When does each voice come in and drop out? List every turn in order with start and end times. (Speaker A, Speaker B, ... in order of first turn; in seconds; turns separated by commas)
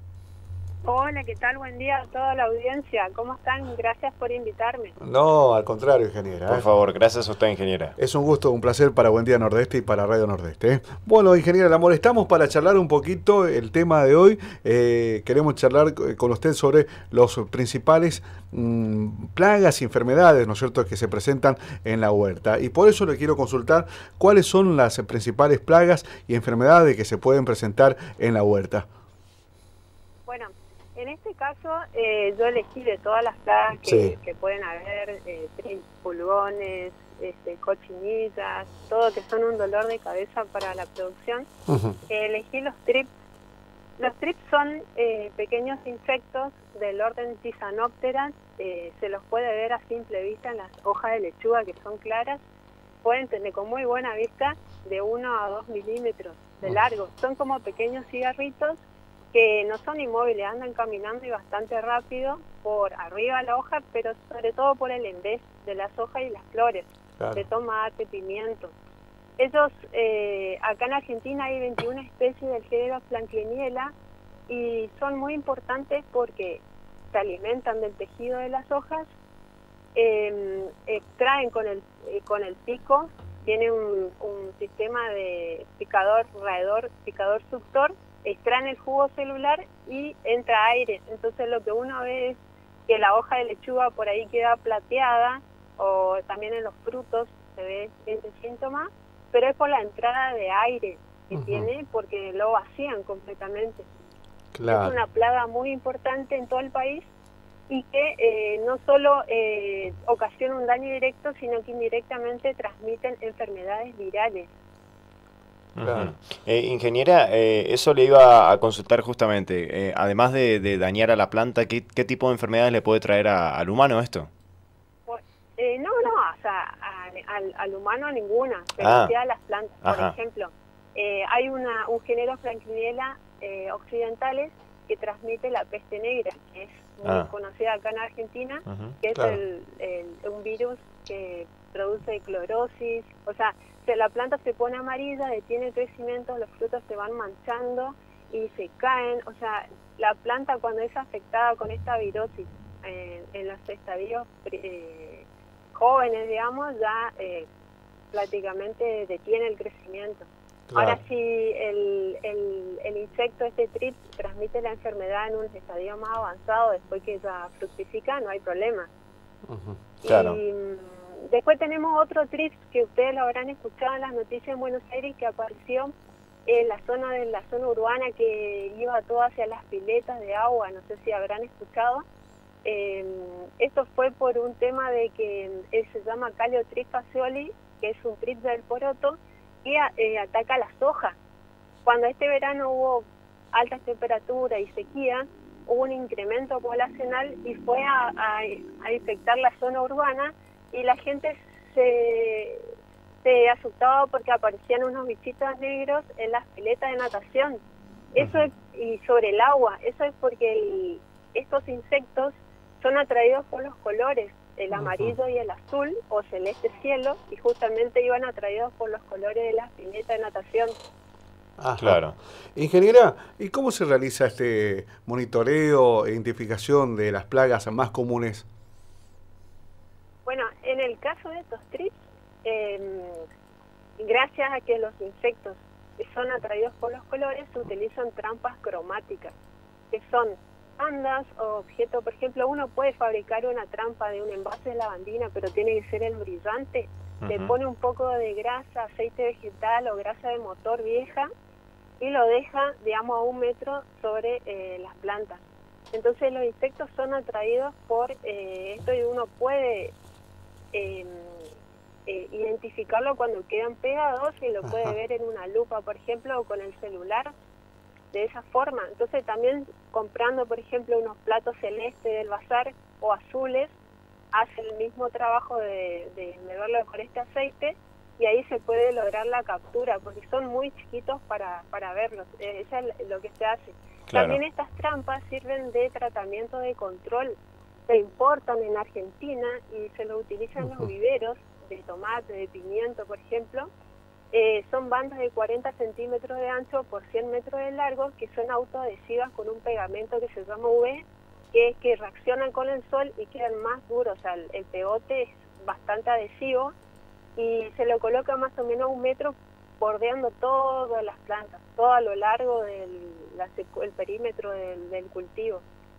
Speaker A: 0.8-4.9, Speaker B: 5.0-6.7, Speaker C: 6.5-8.0, Speaker B: 8.0-28.9, Speaker A: 30.3-41.5, Speaker B: 33.8-34.2, Speaker B: 41.7-42.0, Speaker A: 42.1-43.1, Speaker A: 44.0-52.4, Speaker A: 53.0-58.8, Speaker A: 59.3-68.7, Speaker B: 67.2-67.4, Speaker A: 69.4-73.9, Speaker A: 74.5-79.1, Speaker A: 80.0-103.9, Speaker B: 101.3-101.7, Speaker B: 104.5-105.0, Speaker A: 104.7-107.0, Speaker A: 107.7-114.5, Speaker C: 115.8-124.3, Speaker B: 115.8-116.1, Speaker A: 125.1-157.5, Speaker C: 128.8-129.1, Speaker C: 129.8-130.1, Speaker C: 138.7-139.0, Speaker B: 139.2-139.4, Speaker A: 158.1-168.9, Speaker B: 160.7-161.0, Speaker B: 169.5-169.8, Speaker A: 170.0-175.9, Speaker C: 170.1-170.4, Speaker A: 176.5-182.0, Speaker A: 182.7-191.2, Speaker A: 191.8-202.7, Speaker A: 203.2-207.6, Speaker A: 208.1-220.7, Speaker B: 214.7-215.2, Speaker B: 221.6-222.0, Speaker C: 221.8-222.2, Speaker B: 222.6-228.5, Speaker A: 230.3-233.2, Speaker A: 234.0-239.3, Speaker A: 239.9-251.3, Speaker C: 247.2-247.5, Speaker A: 252.0-255.4, Speaker A: 255.9-259.9, Speaker A: 260.7-261.5, Speaker A: 262.1-267.3, Speaker B: 264.6-264.9, Speaker A: 268.1-273.7, Speaker A: 274.3-287.4, Speaker C: 284.1-284.4, Speaker A: 287.9-293.7, Speaker A: 294.3-306.7, Speaker A: 307.4-315.6